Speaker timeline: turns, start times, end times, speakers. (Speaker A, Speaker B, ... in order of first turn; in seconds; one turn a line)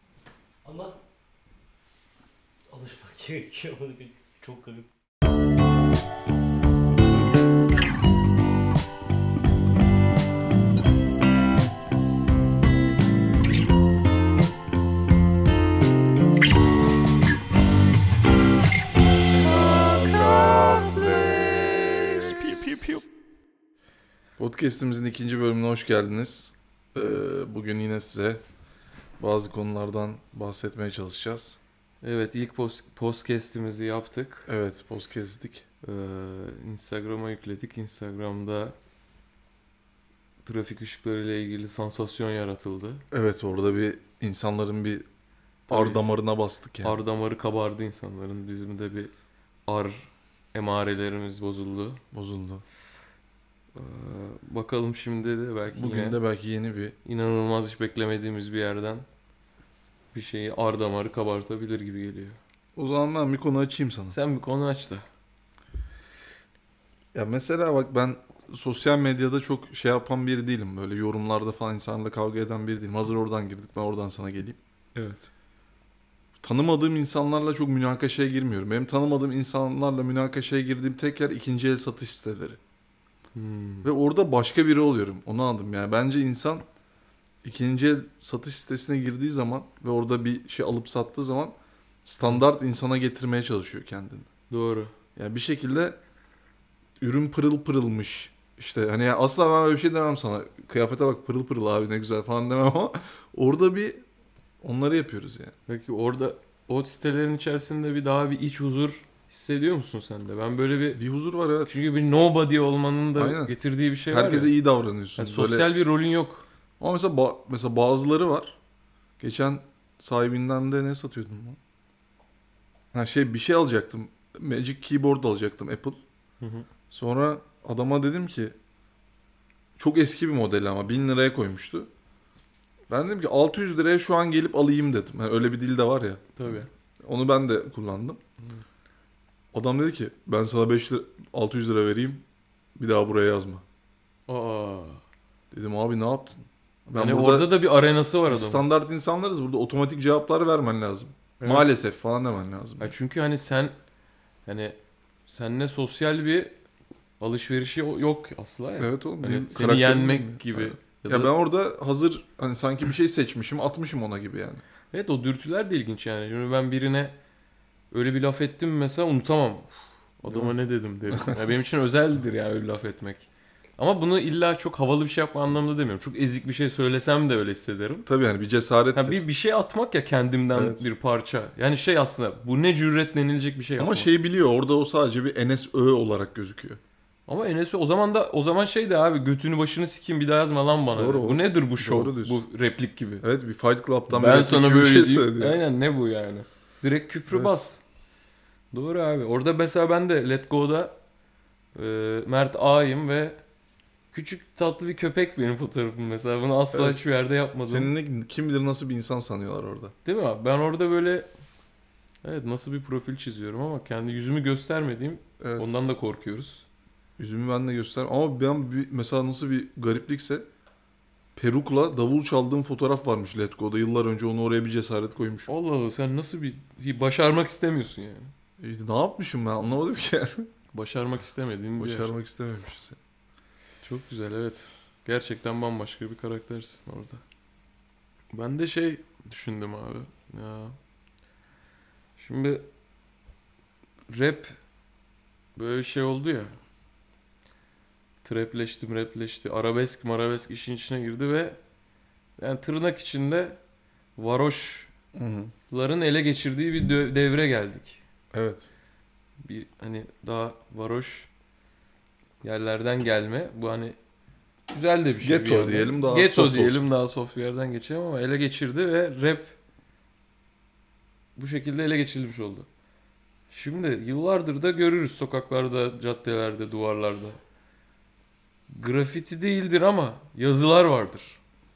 Speaker A: 0.6-1.0
Speaker A: 2.7-4.9
Speaker B: 19.4-23.0
Speaker B: 24.4-28.4
Speaker B: 29.2-31.6
Speaker C: 32.0-34.5
Speaker B: 34.5-35.6
Speaker C: 35.8-38.8
Speaker C: 40.4-43.0
Speaker B: 43.1-45.0
Speaker C: 45.7-46.0
Speaker B: 45.7-47.0
Speaker C: 46.8-49.1
Speaker C: 49.6-52.0
Speaker B: 52.1-52.6
Speaker C: 53.7-56.2
Speaker B: 55.7-57.0
Speaker C: 57.0-59.0
Speaker C: 60.1-62.4
Speaker B: 62.8-64.2
Speaker C: 64.1-65.0
Speaker B: 67.1-74.6
Speaker C: 74.9-75.3
Speaker B: 76.4-82.6
Speaker C: 83.3-83.9
Speaker B: 83.8-86.7
Speaker B: 87.4-94.3
Speaker C: 94.5-94.9
Speaker B: 95.2-96.0
Speaker B: 97.0-104.0
Speaker B: 104.6-105.5
Speaker C: 105.7-111.0
Speaker B: 111.0-111.8
Speaker C: 111.7-114.5
Speaker B: 113.2-113.5
Speaker B: 114.1-115.7
Speaker C: 115.2-116.4
Speaker B: 116.8-118.6
Speaker B: 119.2-121.6
Speaker B: 122.9-126.0
Speaker C: 126.4-126.7
Speaker B: 126.9-128.6
Speaker B: 129.8-131.9
Speaker B: 132.9-138.2
Speaker C: 136.3-136.7
Speaker B: 139.5-142.2
Speaker B: 142.8-143.6
Speaker C: 144.3-145.0
Speaker B: 145.5-147.5
Speaker C: 146.9-148.7
Speaker B: 148.3-152.9
Speaker C: 151.4-151.7
Speaker C: 152.8-153.7
Speaker C: 154.4-156.5
Speaker C: 157.2-161.3
Speaker B: 158.8-164.6
Speaker C: 164.9-167.2
Speaker C: 167.9-173.3
Speaker B: 170.3-170.5
Speaker B: 171.1-171.4
Speaker C: 173.8-178.1
Speaker B: 178.1-179.2
Speaker C: 178.9-184.1
Speaker B: 180.5-180.9
Speaker B: 183.8-186.8
Speaker C: 187.3-193.2
Speaker B: 190.9-192.4
Speaker B: 193.2-195.6
Speaker C: 194.1-197.8
Speaker B: 197.3-197.6
Speaker C: 198.7-200.9
Speaker C: 201.7-203.4
Speaker C: 204.1-207.9
Speaker B: 206.7-207.0
Speaker B: 207.7-209.9
Speaker C: 210.0-211.3
Speaker C: 212.2-216.7
Speaker B: 215.4-215.7
Speaker B: 217.2-220.4
Speaker B: 221.3-225.5
Speaker C: 225.5-228.3
Speaker B: 228.6-230.5
Speaker C: 230.7-232.1
Speaker B: 231.8-233.0
Speaker C: 233.8-237.2
Speaker C: 238.3-240.8
Speaker C: 242.2-242.7
Speaker C: 244.1-244.6
Speaker C: 245.6-246.6
Speaker C: 248.2-251.6
Speaker C: 252.4-253.6
Speaker C: 254.2-254.9
Speaker B: 255.1-255.5
Speaker C: 255.7-258.0
Speaker B: 258.3-258.7
Speaker C: 259.4-261.3
Speaker C: 262.4-264.0
Speaker C: 264.7-269.6
Speaker B: 265.2-266.9
Speaker C: 271.4-272.7
Speaker C: 273.5-277.4
Speaker C: 278.7-281.4